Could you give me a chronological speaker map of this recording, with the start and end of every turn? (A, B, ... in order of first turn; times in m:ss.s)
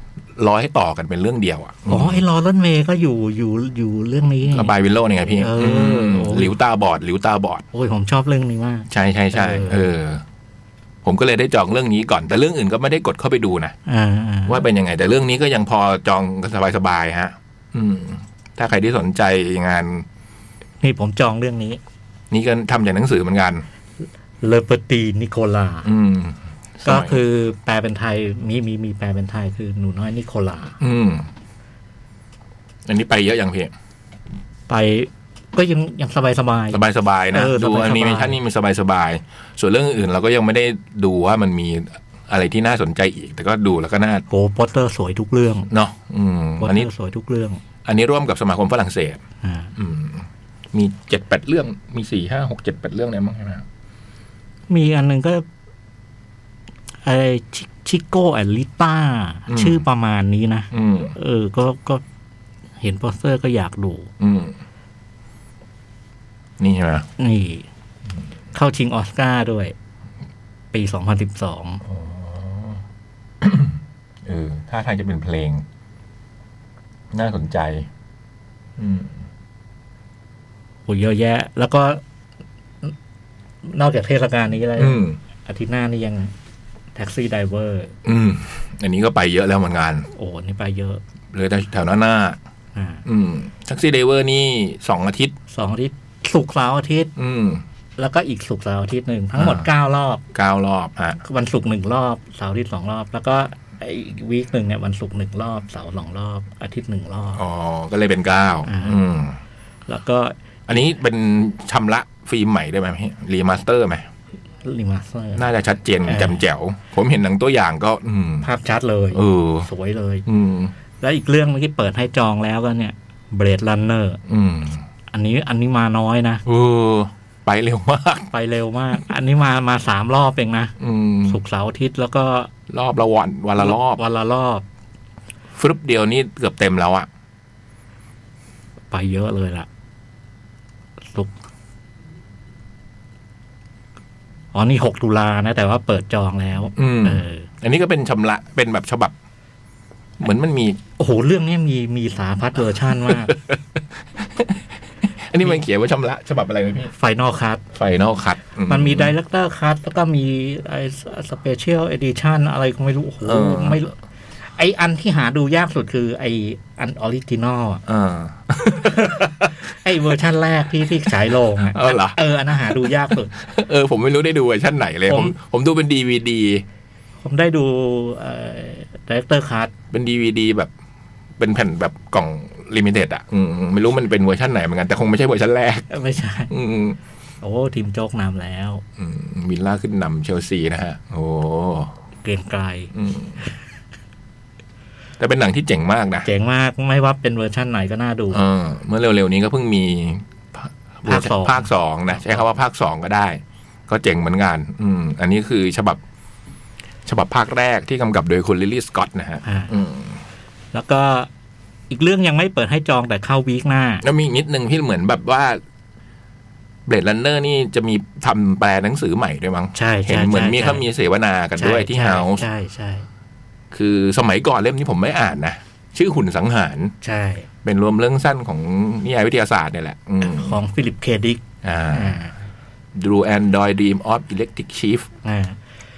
0:00.4-0:02.2 A
0:01.9-0:04.7 B
0:04.5-0:07.6 A
0:05.3-0:06.6 B
0:07.7-0:09.9 B
0:08.9-0:10.2 A
0:11.0-0:13.8 A
0:13.9-0:14.6 B
0:14.4-0:20.0 A
0:20.8-0:21.8 B
0:22.3-0:23.6 A
0:24.4-0:25.9 B
0:25.8-0:27.2 A
0:26.8-0:30.8 B
0:30.8-0:31.2 A
0:32.9-0:33.7 A
0:34.7-0:38.4 B
0:36.7-0:44.2 A
0:44.3-0:45.7 B
0:45.7-0:46.9 A
0:46.6-0:47.6 B
0:47.8-0:49.2 A
0:49.4-0:49.7 B
0:49.8-0:53.6 A
0:54.7-0:55.4 B
0:57.0-1:02.0 B
0:59.5-0:59.8 A
1:00.7-1:01.1 A
1:02.8-1:04.1 B
1:04.2-1:04.6 A
1:06.6-1:07.1 A
1:07.2-1:07.6 B
1:08.5-1:09.7 B
1:10.7-1:11.8 B
1:11.8-1:12.8 A
1:13.4-1:15.6 A
1:17.1-1:17.9 A
1:18.8-1:19.2 A
1:20.8-1:22.0 B
1:23.6-1:26.3 B
1:24.8-1:25.2 A
1:26.9-1:27.9 B
1:28.0-1:30.1 A
1:30.1-1:31.0 B
1:31.3-1:32.4 A
1:32.7-1:33.0 B
1:33.0-1:35.3 A
1:35.5-1:37.1 B
1:37.2-1:37.6 A
1:38.0-1:40.2 B
1:39.4-1:39.7 A
1:40.3-1:41.2 A
1:41.2-1:47.4 B
1:47.3-1:49.4 A
1:48.6-1:49.0 B
1:49.9-1:50.3 B
1:50.7-1:54.0 A
1:54.6-1:55.4 B
1:55.3-1:58.5 A
1:56.1-1:56.4 B
1:58.4-2:00.2 B
1:59.1-1:59.7 A
2:00.2-2:00.7 A
2:01.0-2:04.2 B
2:04.3-2:04.8 A
2:05.1-2:06.4 B
2:06.4-2:08.3 A
2:08.3-2:10.7 B
2:10.8-2:11.4 A
2:11.3-2:12.5 B
2:12.7-2:14.0 A
2:13.6-2:14.6 B
2:15.6-2:17.1 A
2:18.9-2:19.7 B
2:24.5-2:27.5 B
2:26.8-2:29.1 A
2:30.2-2:30.8 A
2:31.0-2:33.4 B
2:33.1-2:33.8 A
2:35.3-2:36.9 A
2:36.9-2:37.6 B
2:37.7-2:39.1 A
2:38.7-2:43.9 B
2:43.2-2:43.9 A
2:44.6-2:47.8 B
2:47.8-2:49.5 A
2:48.9-2:53.3 B
2:51.7-2:52.2 A
2:53.4-2:56.6 A
2:55.1-2:55.3 B
2:57.2-2:59.7 B
2:59.9-3:00.7 A
3:01.4-3:05.9 A
3:05.9-3:06.5 B
3:06.5-3:07.0 A
3:07.4-3:08.8 B
3:09.0-3:11.9 A
3:12.2-3:12.9 B
3:12.9-3:13.4 A
3:15.2-3:16.3 A
3:16.2-3:18.4 B
3:18.3-3:26.0 A
3:21.0-3:21.7 B
3:27.0-3:30.2 A
3:29.4-3:29.7 B
3:30.7-3:31.3 B
3:31.9-3:34.0 B
3:34.0-3:35.6 A
3:36.9-3:42.5 A
3:39.7-3:40.8 B
3:41.6-3:43.1 B
3:43.7-3:46.9 A
3:47.0-3:47.5 B
3:47.6-3:50.6 A
3:50.2-3:52.3 B
3:51.6-3:52.2 A
3:52.9-3:55.1 A
3:55.2-3:55.6 B